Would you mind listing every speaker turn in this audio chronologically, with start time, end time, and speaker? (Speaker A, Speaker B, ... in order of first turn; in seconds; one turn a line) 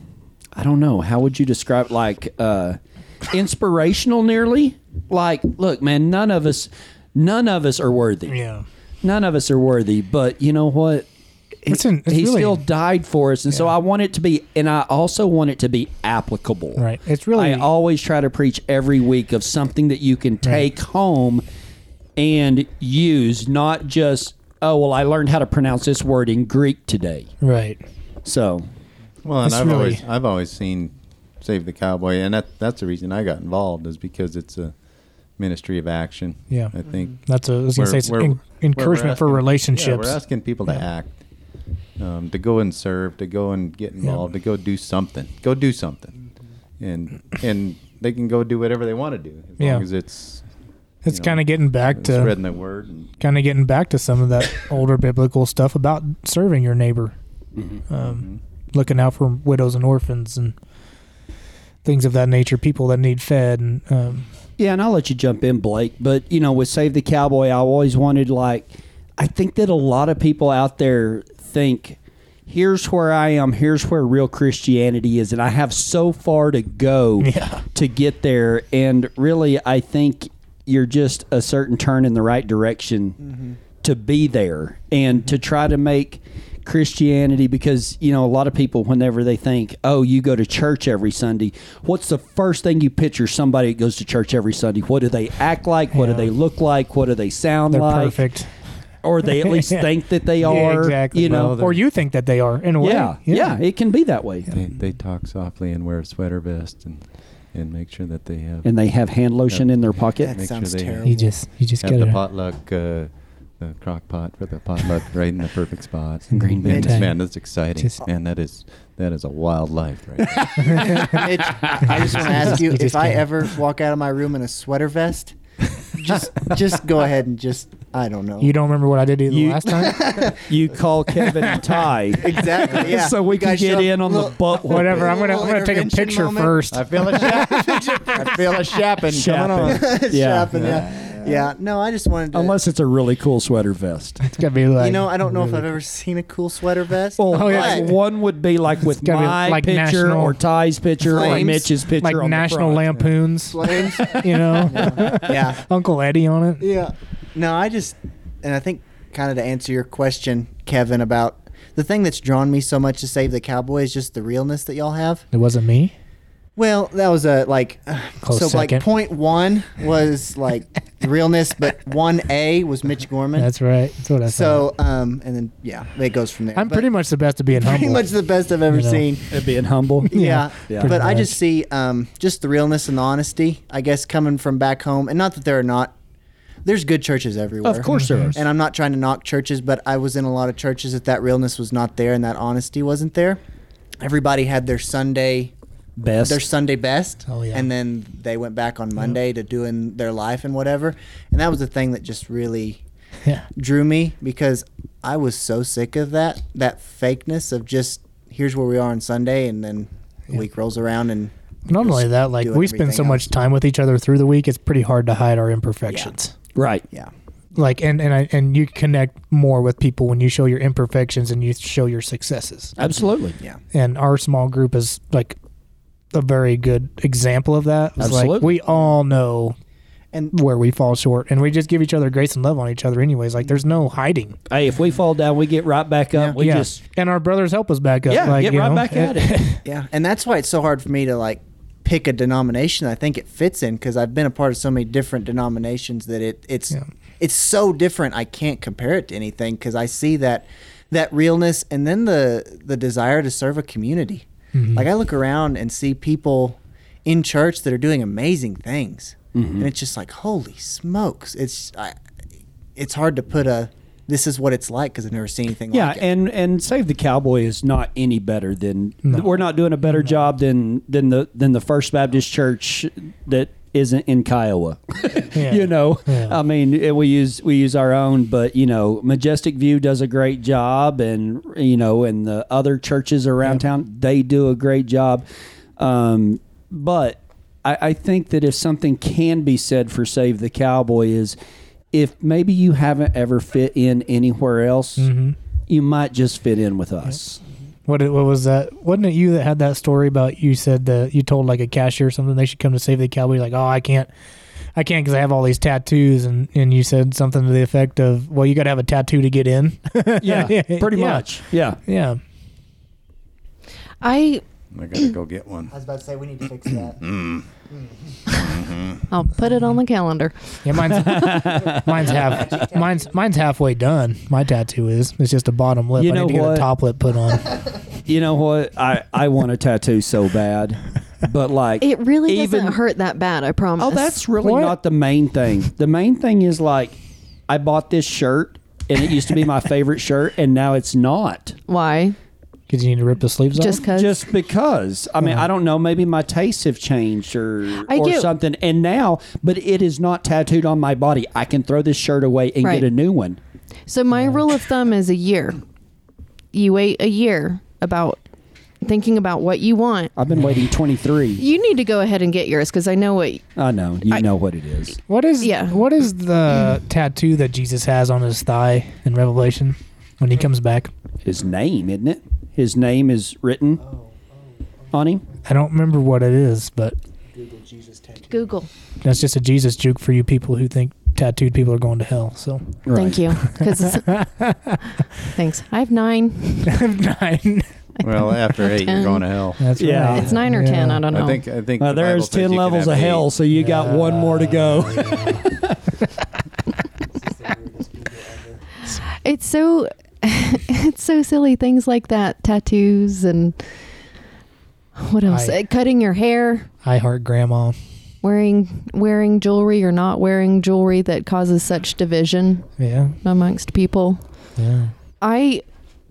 Speaker A: 0.6-8.4
Speaker B: 8.3-8.7
Speaker A: 9.0-11.1
Speaker A: 11.6-21.4
Speaker B: 11.7-12.6
Speaker B: 16.8-17.7
Speaker A: 22.2-27.3
Speaker B: 27.4-27.8
Speaker A: 28.2-28.7
Speaker C: 29.2-34.8
Speaker B: 29.4-30.0
Speaker C: 35.4-37.2
Speaker B: 36.5-40.2
Speaker C: 37.7-41.1
Speaker C: 42.0-46.1
Speaker C: 46.8-50.5
Speaker B: 49.6-49.9
Speaker B: 51.0-52.4
Speaker C: 51.1-53.1
Speaker B: 53.2-57.1
Speaker A: 57.6-57.8
Speaker B: 57.9-60.5
Speaker C: 58.0-58.4
Speaker B: 61.8-64.3
Speaker A: 64.6-83.2
Speaker B: 77.2-77.6
Speaker A: 83.8-98.2
Speaker B: 95.9-96.3
Speaker B: 97.7-98.5
Speaker A: 99.0-101.6
Speaker B: 99.4-99.8
Speaker B: 100.4-103.6
Speaker C: 101.2-101.8
Speaker A: 102.8-104.5
Speaker C: 104.5-108.7
Speaker A: 108.6-110.4
Speaker D: 110.2-111.4
Speaker C: 110.2-111.0
Speaker B: 111.0-112.2
Speaker C: 111.8-120.9
Speaker B: 116.3-117.1
Speaker D: 116.7-117.0
Speaker B: 120.5-121.2
Speaker D: 120.6-128.5
Speaker A: 121.2-121.8
Speaker B: 121.9-123.2
Speaker B: 128.4-130.2
Speaker A: 129.3-135.2
Speaker D: 129.8-130.5
Speaker D: 132.1-138.4
Speaker B: 134.6-138.1
Speaker C: 136.7-139.8
Speaker A: 139.1-140.8
Speaker D: 139.6-142.6
Speaker C: 140.5-140.9
Speaker A: 142.3-144.2
Speaker B: 144.2-145.7
Speaker D: 144.8-147.9
Speaker A: 147.2-152.9
Speaker B: 147.3-147.9
Speaker B: 148.9-150.4
Speaker D: 151.0-151.7
Speaker B: 151.2-156.6
Speaker D: 153.5-155.7
Speaker D: 156.6-165.3
Speaker B: 165.3-165.9
Speaker D: 166.6-173.5
Speaker B: 168.2-168.8
Speaker B: 173.4-174.7
Speaker D: 174.3-176.9
Speaker B: 176.6-178.1
Speaker D: 177.5-179.4
Speaker B: 178.7-179.1
Speaker A: 179.3-181.0
Speaker B: 180.0-181.4
Speaker D: 180.1-185.9
Speaker D: 186.6-193.4
Speaker A: 187.6-188.4
Speaker B: 187.9-188.4
Speaker D: 194.0-195.5
Speaker A: 196.0-196.4
Speaker D: 196.2-202.8
Speaker B: 197.3-197.7
Speaker D: 203.6-213.2
Speaker B: 211.7-216.3
Speaker A: 215.9-216.9
Speaker B: 217.6-222.8
Speaker A: 222.8-223.4
Speaker B: 223.7-225.4
Speaker B: 226.1-229.6
Speaker A: 228.0-228.5
Speaker B: 230.3-234.4
Speaker A: 234.5-236.8
Speaker B: 236.4-239.6
Speaker A: 238.1-239.4
Speaker D: 239.7-261.9
Speaker B: 254.5-254.9
Speaker A: 259.3-259.7
Speaker D: 262.8-266.0
Speaker A: 265.7-285.2
Speaker B: 269.9-270.1
Speaker B: 275.3-276.4
Speaker A: 285.8-291.4
Speaker A: 291.9-295.1
Speaker B: 295.0-295.4
Speaker A: 295.7-297.4
Speaker B: 297.9-304.1
Speaker B: 304.8-311.3
Speaker A: 310.2-311.8
Speaker B: 311.9-312.2
Speaker E: 314.0-314.4
Speaker C: 314.7-315.7
Speaker D: 315.7-317.1
Speaker C: 316.7-317.5
Speaker C: 318.3-319.1
Speaker E: 319.1-321.0
Speaker B: 320.6-327.5
Speaker A: 320.7-322.6
Speaker D: 322.5-323.0
Speaker A: 326.0-326.7
Speaker A: 328.0-332.8
Speaker E: 331.8-334.2
Speaker A: 333.8-337.0
Speaker B: 334.4-334.8
Speaker A: 337.5-341.6
Speaker E: 341.7-342.2
Speaker B: 342.7-343.8
Speaker E: 343.6-344.2
Speaker A: 343.8-353.4
Speaker E: 347.9-348.3
Speaker E: 353.9-355.6
Speaker E: 356.5-358.2
Speaker E: 358.8-360.1
Speaker A: 360.2-361.4
Speaker B: 360.3-360.6
Speaker E: 361.4-363.4
Speaker A: 363.6-365.0
Speaker B: 365.1-370.9
Speaker E: 365.4-365.8
Speaker A: 371.2-373.8
Speaker D: 373.9-374.3
Speaker A: 374.9-375.3
Speaker B: 375.4-376.9
Speaker D: 377.3-378.4
Speaker E: 378.3-378.7
Speaker B: 379.0-382.8
Speaker A: 382.9-383.4
Speaker E: 382.9-384.1
Speaker B: 383.6-385.3
Speaker E: 385.3-386.8
Speaker B: 386.7-387.7
Speaker E: 388.0-389.2
Speaker C: 388.0-389.7
Speaker B: 389.6-391.1
Speaker A: 389.8-390.4
Speaker E: 389.9-391.4
Speaker C: 391.1-393.3
Speaker A: 391.8-395.8
Speaker B: 393.5-395.5
Speaker D: 397.4-398.5
Speaker E: 399.0-403.6
Speaker E: 405.0-406.7
Speaker B: 405.3-405.6
Speaker B: 406.8-407.8
Speaker E: 408.2-412.7
Speaker B: 412.8-413.2
Speaker E: 413.2-414.2
Speaker B: 414.6-414.9
Speaker E: 415.2-415.6